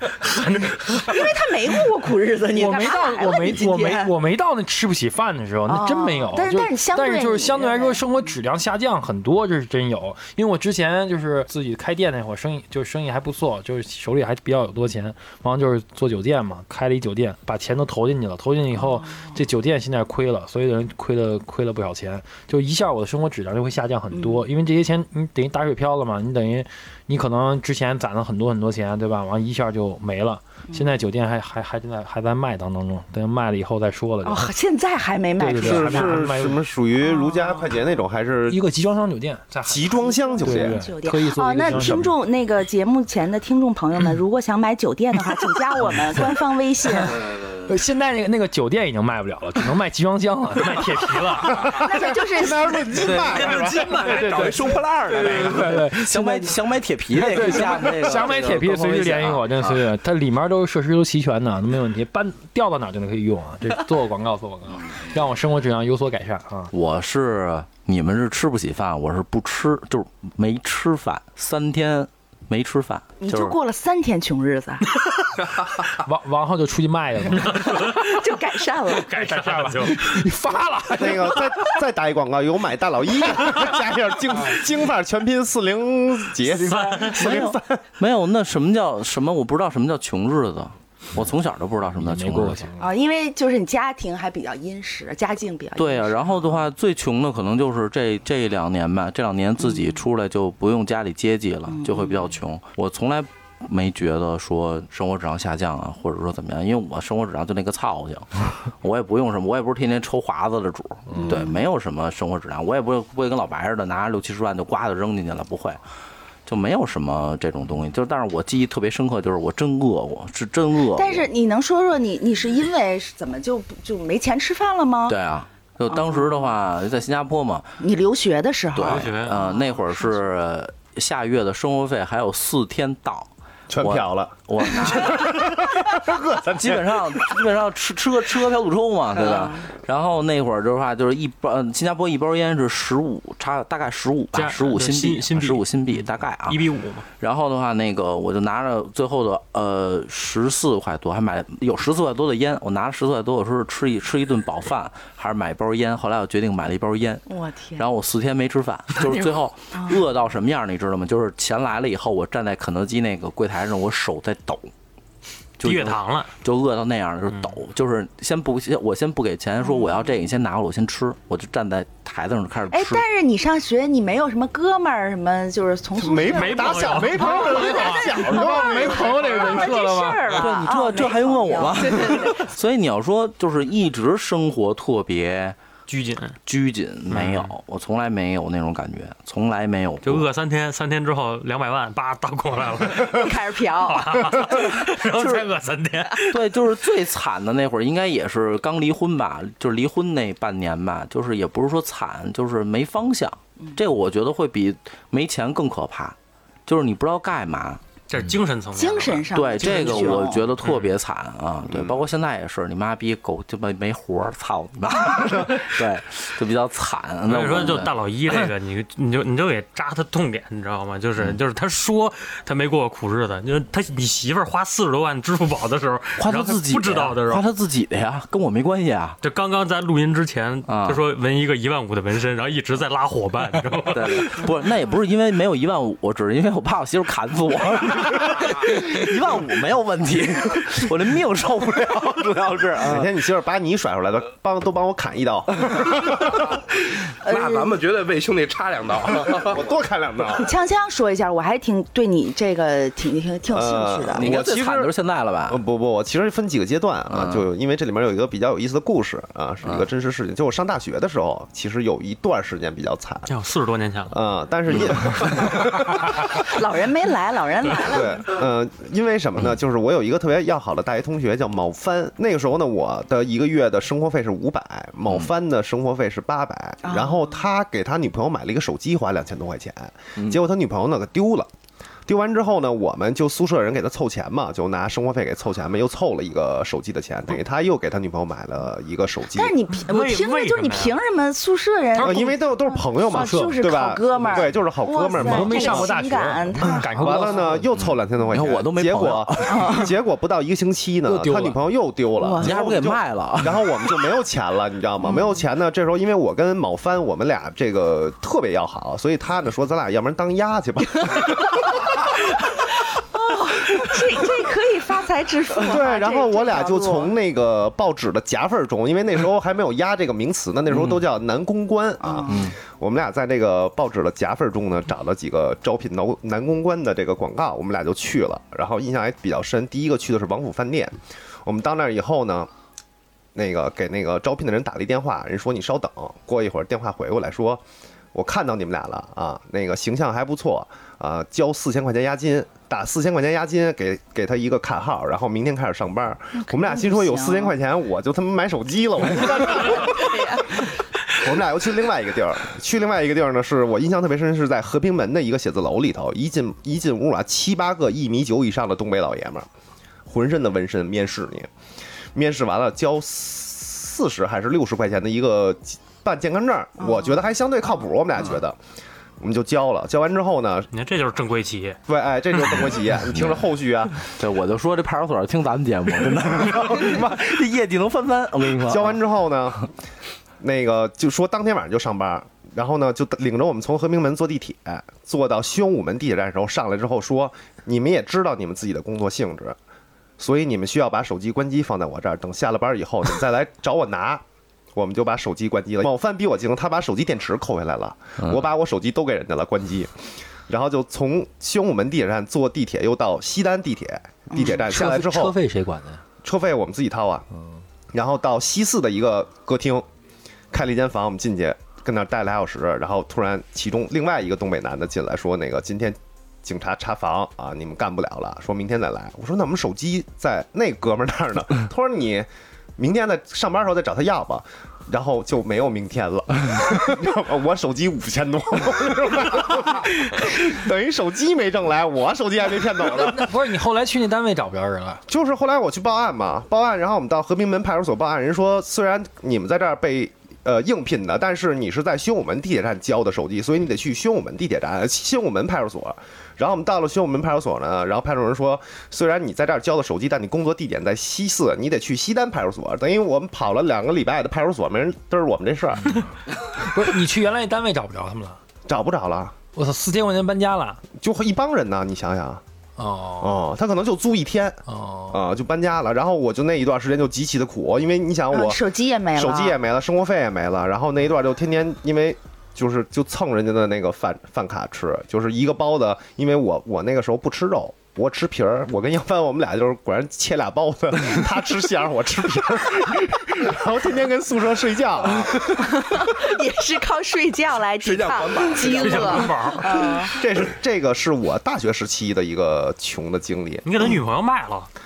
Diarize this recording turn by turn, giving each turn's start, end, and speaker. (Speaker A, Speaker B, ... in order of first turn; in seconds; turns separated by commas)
Speaker A: 0.3-0.8, Speaker B: 0.9-4.1, Speaker C: 2.5-34.5, Speaker B: 5.7-8.0, Speaker B: 18.9-19.3, Speaker B: 24.1-24.4, Speaker B: 30.7-31.0, Speaker B: 34.2-36.2, Speaker C: 35.4-36.6, Speaker D: 35.6-38.6, Speaker B: 37.0-37.7, Speaker C: 38.5-42.1, Speaker D: 39.6-40.8, Speaker B: 39.9-47.2, Speaker D: 41.7-42.0, Speaker E: 47.3-47.6, Speaker C: 47.6-51.6, Speaker D: 51.5-54.1, Speaker B: 51.6-53.2, Speaker E: 53.0-53.5, Speaker A: 53.2-54.4, Speaker C: 53.7-54.6, Speaker F: 53.9-55.8, Speaker E: 54.4-59.8, Speaker C: 55.2-56.6, Speaker C: 57.1-66.7, Speaker E: 66.7-73.5, Speaker B: 73.2-75.0, Speaker C: 76.0-77.9, Speaker A: 77.5-78.1, Speaker B: 77.9-79.1, Speaker A: 79.0-80.1, Speaker C: 79.1-81.7, Speaker D: 80.9-87.8, Speaker A: 86.5-87.4, Speaker E: 87.1-92.7, Speaker C: 91.9-92.9, Speaker B: 92.8-96.6, Speaker E: 95.8-115.8, Speaker B: 101.7-102.3, Speaker C: 111.1-111.4, Speaker B: 111.2-111.6, Speaker E: 116.5-121.3, Speaker B: 120.9-125.2, Speaker E: 125.1-127.8, Speaker B: 125.9-126.5, Speaker B: 127.8-130.1, Speaker E: 128.7-133.3, Speaker A: 128.8-129.4, Speaker D: 133.7-137.4, Speaker E: 133.8-135.6, Speaker E: 136.4-157.2, Speaker A: 144.3-147.1, Speaker B: 157.3-157.9, Speaker E: 157.8-164.7, Speaker E: 165.6-173.0, Speaker A: 165.6-166.3, Speaker B: 169.6-170.1, Speaker B: 172.7-182.4, Speaker D: 175.9-179.8, Speaker A: 176.3-177.5, Speaker C: 177.1-180.8, Speaker E: 180.3-185.6, Speaker A: 185.9-186.3, Speaker E: 186.4-190.3, Speaker A: 187.1-187.5, Speaker A: 190.0-196.5, Speaker B: 193.1-194.6, Speaker E: 195.1-195.5, Speaker E: 196.3-206.1, Speaker E: 206.7-207.8, Speaker A: 208.1-209.3, Speaker B: 208.7-210.5, Speaker E: 209.3-217.9, Speaker A: 210.6-210.9, Speaker D: 211.7-212.0, Speaker A: 217.3-227.4, Speaker E: 226.2-229.2, Speaker A: 229.2-234.5, Speaker E: 230.7-231.0, Speaker E: 233.9-243.1, Speaker D: 242.7-246.6, Speaker F: 247.2-249.6, Speaker B: 247.2-247.8, Speaker D: 249.2-250.5, Speaker B: 250.4-254.4, Speaker D: 253.5-254.9, Speaker E: 254.1-255.6, Speaker D: 255.5-263.3, Speaker E: 257.1-257.4, Speaker A: 263.3-264.1, Speaker D: 264.1-266.2, Speaker B: 266.4-268.4, Speaker D: 267.9-281.5, Speaker B: 276.8-277.3, Speaker D: 282.1-289.5, Speaker B: 289.3-297.4, Speaker A: 289.7-291.0, Speaker A: 291.9-292.2, Speaker D: 292.0-295.9, Speaker C: 293.1-293.6, Speaker C: 295.2-297.7, Speaker D: 297.0-311.5, Speaker E: 297.8-299.7, Speaker B: 299.5-299.9, Speaker C: 301.0-301.6, Speaker B: 302.2-302.8, Speaker E: 302.4-303.8, Speaker B: 313.1-317.1, Speaker D: 315.6-332.5, Speaker B: 322.0-322.4, Speaker E: 322.3-322.6, Speaker D: 333.3-337.6, Speaker D: 338.1-359.5, Speaker B: 346.4-347.6, Speaker B: 349.8-350.5, Speaker D: 360.1-361.5, Speaker D: 362.1-368.6, Speaker D: 369.2-370.7, Speaker A: 370.7-371.8, Speaker D: 371.9-374.0, Speaker E: 373.1-373.4, Speaker E: 374.0-379.0, Speaker D: 376.5-377.0, Speaker D: 378.7-379.7, Speaker D: 380.4-389.6, Speaker D: 390.2-394.2, Speaker D: 394.7-405.4, Speaker B: 404.3-404.6, Speaker C: 404.6-406.0, Speaker D: 406.2-407.2, Speaker D: 407.9-409.9, Speaker D: 410.5-433.3, Speaker C: 432.8-435.0, Speaker D: 435.1-456.0, Speaker C: 455.9-458.4, Speaker D: 458.7-459.3, Speaker C: 459.5-460.8, Speaker D: 461.0-462.4, Speaker C: 462.8-463.3, Speaker D: 463.2-464.6, Speaker C: 464.7-465.2, Speaker D: 465.1-468.6, Speaker B: 468.3-469.6, Speaker D: 469.1-486.0, Speaker B: 485.4-490.2, Speaker F: 487.8-489.6, Speaker A: 488.6-489.9, Speaker D: 490.1-493.9, Speaker A: 493.6-494.7